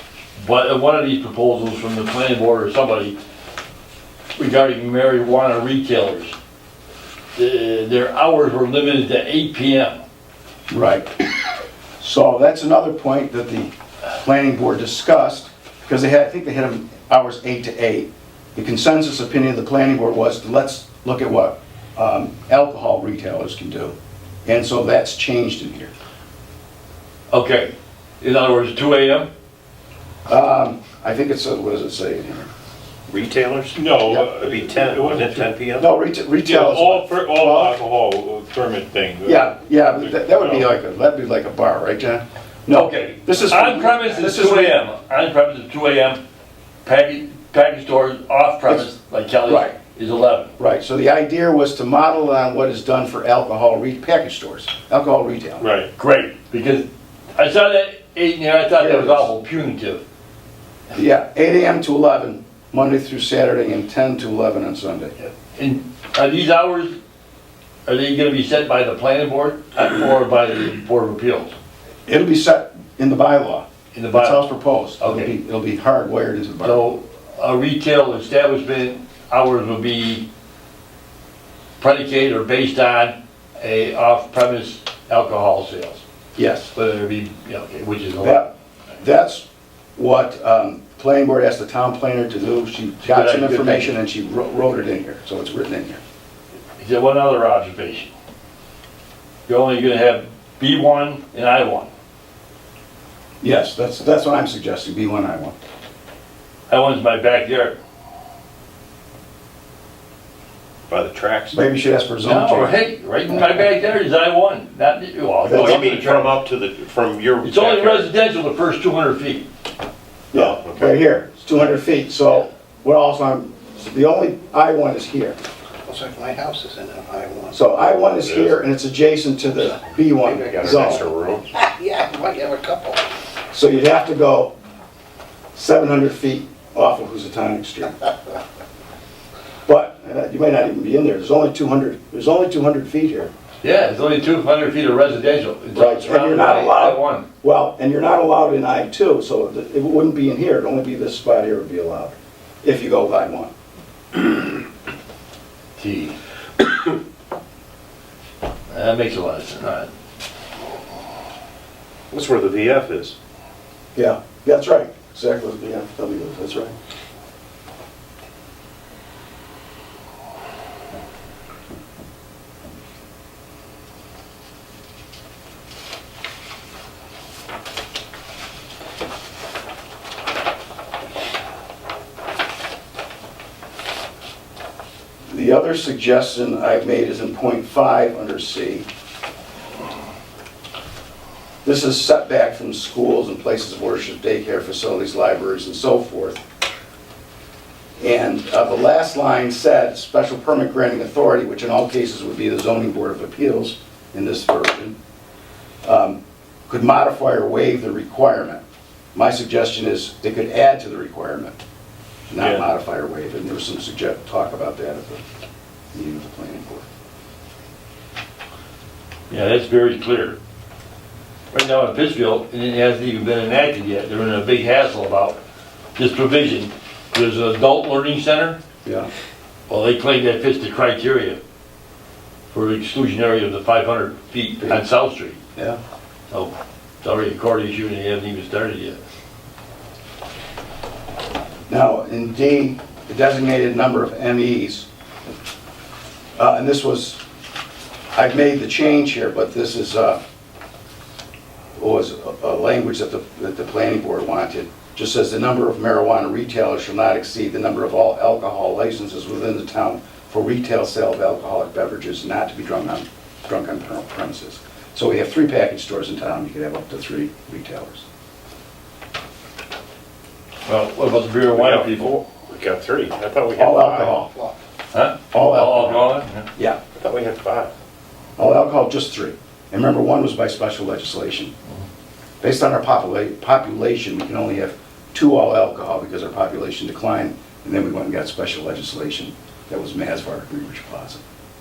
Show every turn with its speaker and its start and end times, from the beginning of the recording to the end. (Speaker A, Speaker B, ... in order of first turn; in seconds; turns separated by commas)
Speaker A: 0.4-3.2, Speaker A: 4.4-6.3, Speaker A: 7.4-10.0, Speaker B: 10.7-11.2, Speaker B: 12.0-25.9, Speaker A: 27.3-29.3, Speaker B: 30.3-32.5, Speaker C: 33.1-33.8, Speaker D: 33.7-35.5, Speaker C: 34.4-35.9, Speaker B: 35.8-37.8, Speaker D: 36.4-40.7, Speaker B: 39.2-44.8, Speaker A: 42.7-46.2, Speaker A: 46.8-50.5, Speaker B: 49.5-49.7, Speaker B: 50.6-55.7, Speaker D: 55.6-55.9, Speaker A: 56.0-60.0, Speaker B: 58.8-59.3, Speaker B: 60.9-65.1, Speaker A: 65.2-67.0, Speaker A: 67.9-71.6, Speaker B: 72.1-76.9, Speaker A: 73.9-74.4, Speaker A: 75.0-75.3, Speaker A: 76.6-80.3, Speaker A: 81.8-86.0, Speaker B: 86.4-86.7, Speaker A: 86.7-88.5, Speaker B: 88.2-96.0, Speaker A: 93.0-93.9, Speaker A: 96.8-98.1, Speaker A: 99.5-101.9, Speaker B: 103.4-105.5, Speaker A: 106.7-107.8, Speaker C: 110.9-111.6, Speaker B: 111.5-112.8, Speaker A: 112.2-116.4, Speaker C: 115.4-118.1, Speaker B: 115.5-115.9, Speaker A: 117.4-119.5, Speaker C: 120.3-121.1, Speaker B: 120.3-125.4, Speaker E: 125.9-127.6, Speaker B: 127.5-131.1, Speaker C: 128.2-128.6, Speaker C: 130.2-131.5, Speaker E: 131.6-133.0, Speaker B: 133.5-134.5, Speaker B: 135.5-138.0, Speaker B: 139.7-143.3, Speaker A: 143.6-147.3, Speaker B: 145.8-153.5, Speaker A: 155.8-156.2, Speaker A: 158.7-159.9, Speaker C: 162.1-163.2, Speaker B: 163.9-166.7, Speaker B: 185.3-188.9, Speaker B: 191.6-196.4, Speaker B: 198.0-205.0, Speaker B: 205.8-208.6, Speaker B: 209.2-211.6, Speaker B: 212.3-215.2, Speaker A: 212.4-212.7, Speaker B: 215.9-216.8, Speaker A: 219.3-220.4, Speaker A: 221.5-225.4, Speaker A: 226.0-228.6, Speaker A: 229.7-231.4, Speaker A: 232.5-235.4, Speaker A: 236.3-239.0, Speaker B: 241.7-244.9, Speaker B: 246.4-247.2, Speaker B: 248.1-250.2, Speaker B: 251.8-268.1, Speaker A: 270.7-272.2, Speaker C: 271.5-274.6, Speaker B: 273.6-274.3, Speaker A: 274.9-276.5, Speaker B: 275.3-276.8, Speaker C: 276.9-277.7, Speaker B: 278.4-281.5, Speaker B: 282.4-291.2